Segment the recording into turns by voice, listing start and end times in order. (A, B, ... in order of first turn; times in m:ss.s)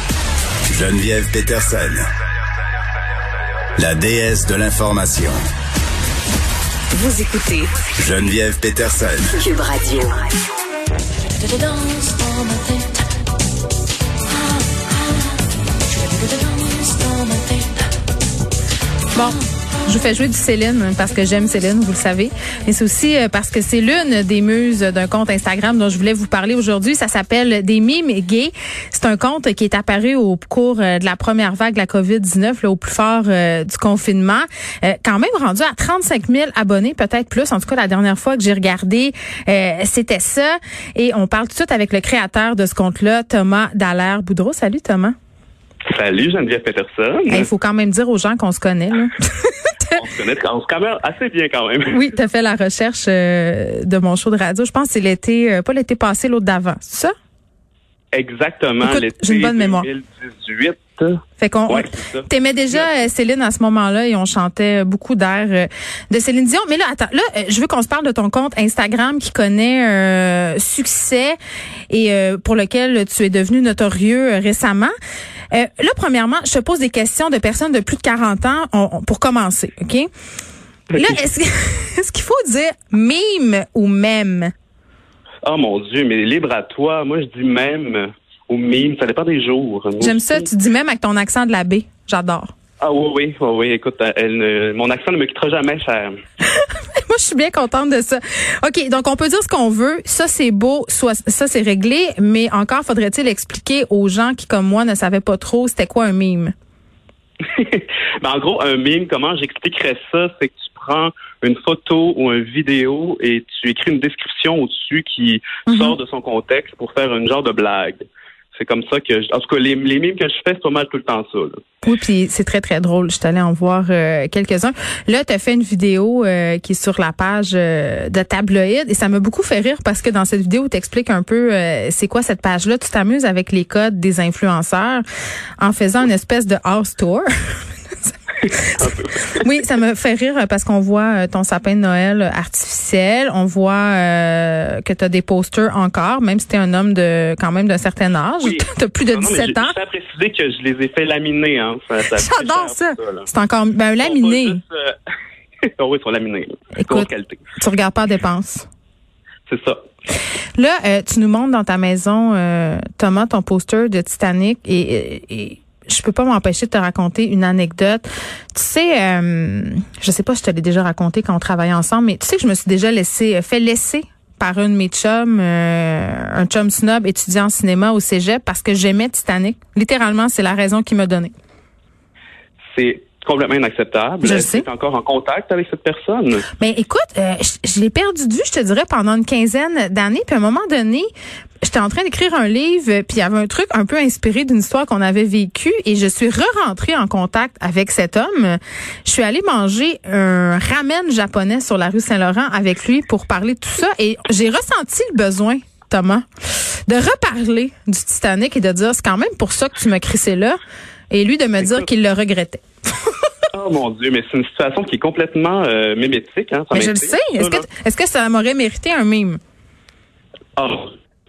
0:00.7-0:02.0 A
0:03.8-0:05.4 A
0:07.0-0:07.5 B
0:08.0-0:09.4 A
0:09.4-0:10.2 C
0:11.4-0:12.9 C
0:15.9-0:17.8 C
0:19.1-0:45.1 B
0:45.9-0:47.4 D
0:47.3-0:50.0 B
0:49.9-0:52.0 D
0:51.9-0:57.1 B
0:58.1-1:02.9 D
0:58.8-0:59.8 B
1:01.4-1:11.4 B
1:11.9-1:14.9 B
1:15.5-1:20.1 B
1:20.9-1:24.5 B
1:25.4-1:30.5 D
1:30.0-1:32.5 B
1:32.8-1:36.1 D
1:36.5-1:46.5 B
1:47.5-2:01.6 D
1:55.7-1:56.0 B
2:01.8-2:15.0 B
2:15.6-2:17.6 B
2:18.5-2:29.8 B
2:18.8-2:19.4 D
2:28.4-2:33.3 D
2:32.2-2:34.6 B
2:34.0-2:35.0 D
2:35.8-2:37.4 D
2:36.7-2:38.7 B
2:39.5-2:39.8 D
2:40.6-3:01.3 B
3:02.7-3:06.4 D
3:04.2-3:04.6 B
3:06.6-3:11.1 B
3:11.6-3:30.6 B
3:31.1-3:33.1 B
3:33.5-3:37.6 D
3:36.7-3:39.4 B
3:40.6-3:40.9 D